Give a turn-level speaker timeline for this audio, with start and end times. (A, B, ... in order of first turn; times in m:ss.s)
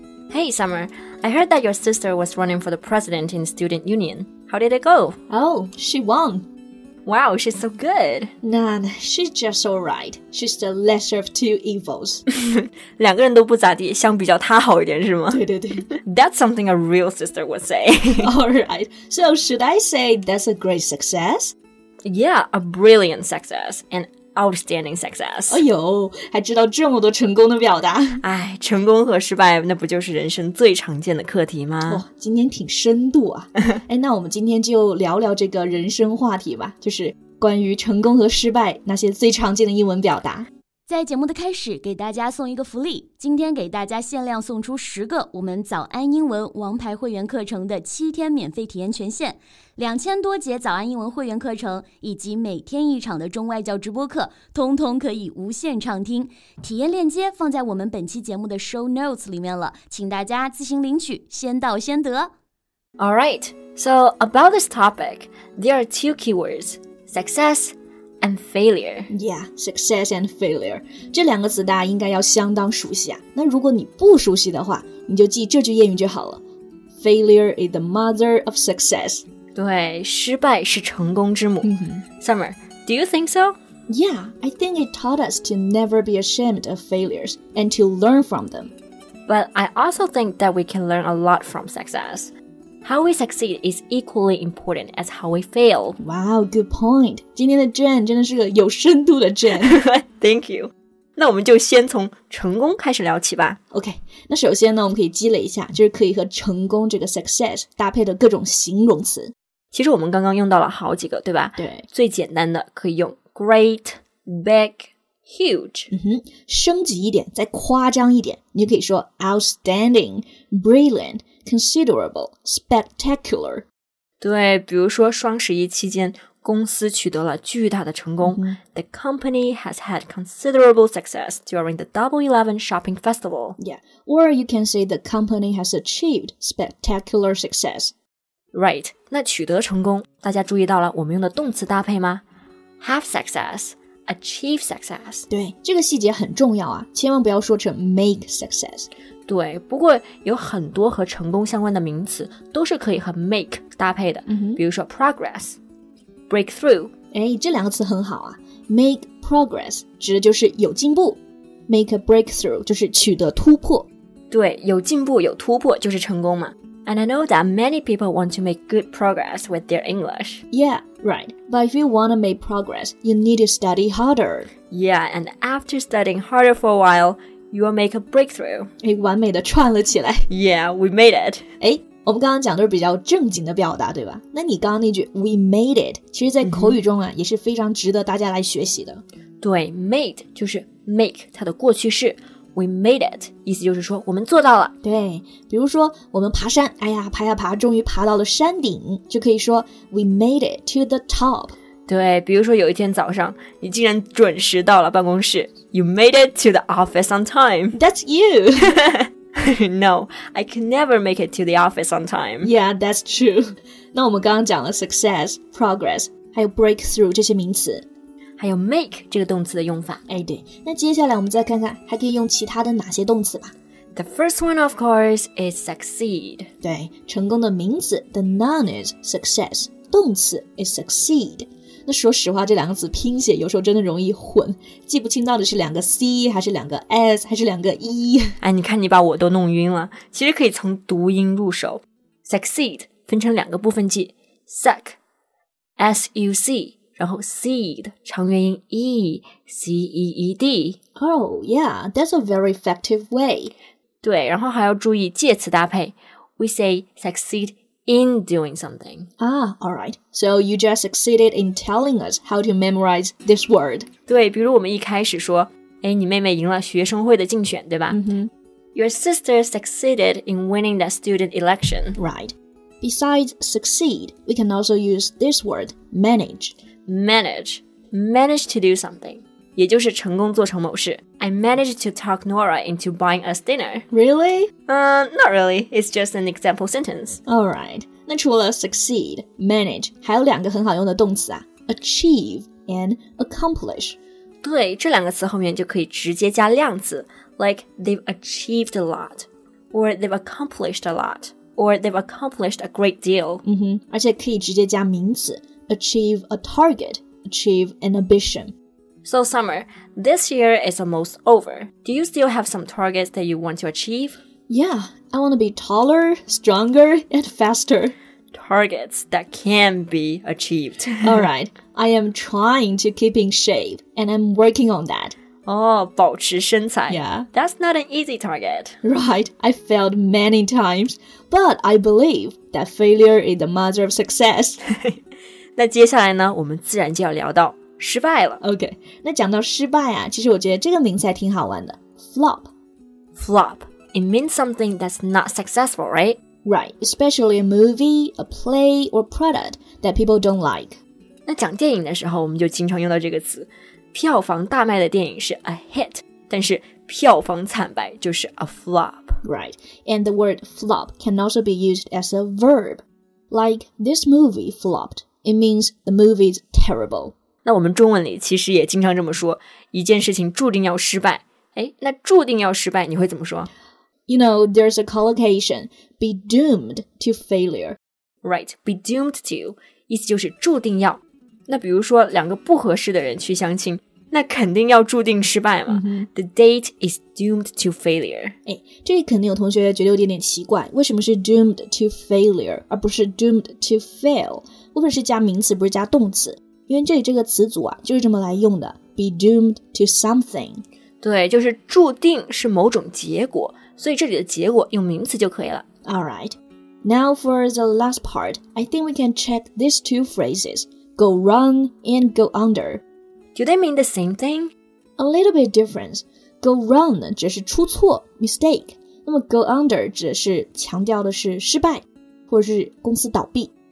0:00.3-0:05.2 A
0:05.3-0:06.4 B
0:07.0-0:08.3 A
0:08.4-0:12.2 B
0:12.3-0:18.3 A
0:15.3-0:15.9 B
0:18.2-0:21.5 B
0:22.0-0:25.6 A
0:25.5-0:28.2 B
0:28.2-0:32.0 A
0:31.8-0:40.5 B
0:40.9-1:02.3 C
1:03.0-1:09.1 A
1:09.1-1:16.4 B
1:17.0-1:19.2 B
1:19.5-1:23.6 A
1:21.6-1:22.0 B
1:23.9-1:28.7 B
1:29.3-1:32.3 A
1:32.8-1:36.0 A
1:36.0-1:39.8 B
1:39.5-1:43.6 A
1:43.7-1:49.3 B
1:49.7-1:55.9 A
1:51.6-1:51.8 B
1:55.9-2:03.6 B
2:04.2-2:13.6 A
2:08.2-2:08.6 B
2:13.6-2:17.9 B
2:18.5-2:22.2 A
2:22.8-2:25.3 A
2:25.3-2:28.9 B
2:29.3-2:35.6 A
2:34.3-2:34.6 B
2:36.3-2:36.9 A
2:37.1-2:43.9 B
2:44.3-2:50.4 A
2:50.5-2:54.5 B
2:54.7-2:58.7 A
2:58.8-3:00.2 B
3:00.3-3:01.4 A
3:01.6-3:09.0 B
3:06.4-3:06.8 A
3:09.4-3:14.7 A
3:14.8-3:21.5 B
3:21.9-3:27.8 A
3:27.7-3:28.7 B
3:28.7-3:32.5 A
3:32.4-3:37.8 B
3:38.4-3:40.0 A
3:40.1-3:43.5 B
3:44.0-3:46.5 A
3:46.6-3:58.4 B
3:58.4-4:05.0 A
4:05.8-4:10.8 A
4:11.0-4:13.5 B
4:14.0-4:19.1 A
4:19.2-4:23.9 B
4:24.1-4:28.0 A
4:27.9-4:28.3 B
4:28.7-4:32.0 A
4:32.0-4:36.5 B
4:36.9-4:43.8 A
4:43.9-4:44.5 B
4:44.7-4:47.2 A
4:47.3-4:54.0 B
4:54.4-5:03.4 A
5:03.4-5:08.5 B
5:09.0-5:14.2 A
5:14.5-5:17.9 B
5:18.3-5:21.3 A
5:21.0-5:25.2 B
5:25.4-5:28.8 A
5:26.9-5:27.3 B
5:28.8-5:34.6 B
5:34.7-5:35.0 A
5:35.6-5:38.4 A
5:38.4-5:42.5 B
5:43.2-5:46.2 A
5:46.4-5:50.8 B
5:51.3-5:59.2 A
5:59.2-6:07.1 B
6:07.4-6:13.5 A
6:14.1-6:17.8 B
6:18.2-6:28.4 A
6:25.7-6:26.1 B
6:28.4-6:40.6 B
6:41.0-6:45.6 A
6:45.8-6:52.8 B
6:53.3-6:54.5 A
6:55.0-7:03.5 B